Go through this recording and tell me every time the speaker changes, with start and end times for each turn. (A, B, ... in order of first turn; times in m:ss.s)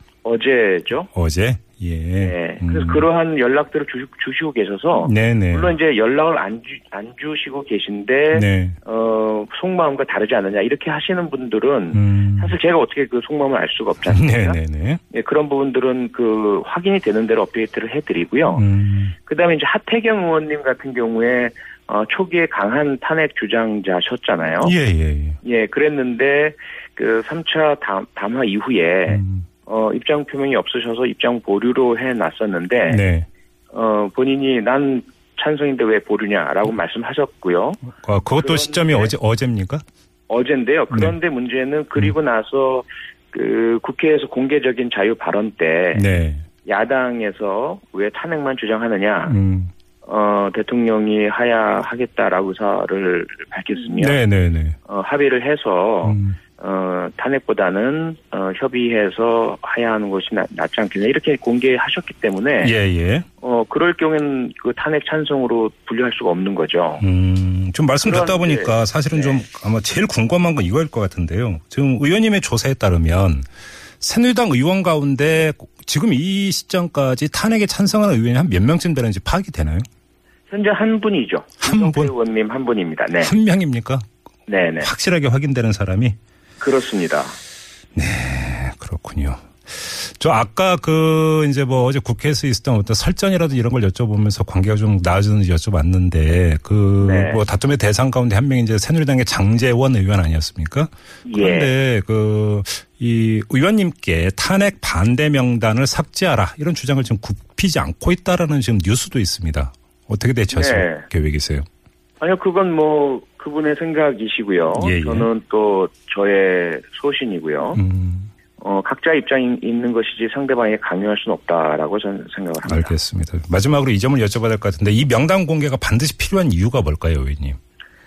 0:00.2-0:01.1 A
0:01.1-0:03.0 B
0:02.2-0:14.6 A
0:05.0-0:05.7 B
0:08.3-0:08.8 B
0:11.9-0:12.5 B
0:14.1-0:15.0 B
0:15.1-0:18.6 A
0:18.5-0:19.1 B
0:19.2-0:24.7 A
0:24.6-0:25.4 B
0:25.4-0:33.0 A
0:29.1-0:29.4 B
0:32.9-0:33.3 B
0:33.7-0:37.8 A
0:38.0-0:39.8 B
0:38.4-0:39.1 A
0:40.3-0:46.0 A
0:45.9-0:46.4 B
0:46.6-0:49.4 A
0:49.3-0:49.7 B
0:50.0-0:54.2 A
0:54.0-0:54.8 B
0:54.8-1:02.7 A
0:56.0-0:56.4 B
1:02.6-1:03.2 B
1:03.4-1:07.0 A
1:07.0-1:13.4 B
1:08.0-1:09.4 A
1:14.0-1:19.8 B
1:20.5-1:23.3 A
1:21.6-1:22.1 B
1:23.2-1:24.0 B
1:24.5-1:24.9 A
1:24.8-1:26.2 B
1:26.6-1:27.4 A
1:27.9-1:51.6 B
1:37.0-1:37.4 A
1:41.2-1:41.7 A
1:50.5-1:51.1 A
1:52.2-1:57.8 A
1:54.7-1:55.3 B
1:57.7-1:58.3 B
1:58.6-2:02.9 A
2:02.6-2:07.6 B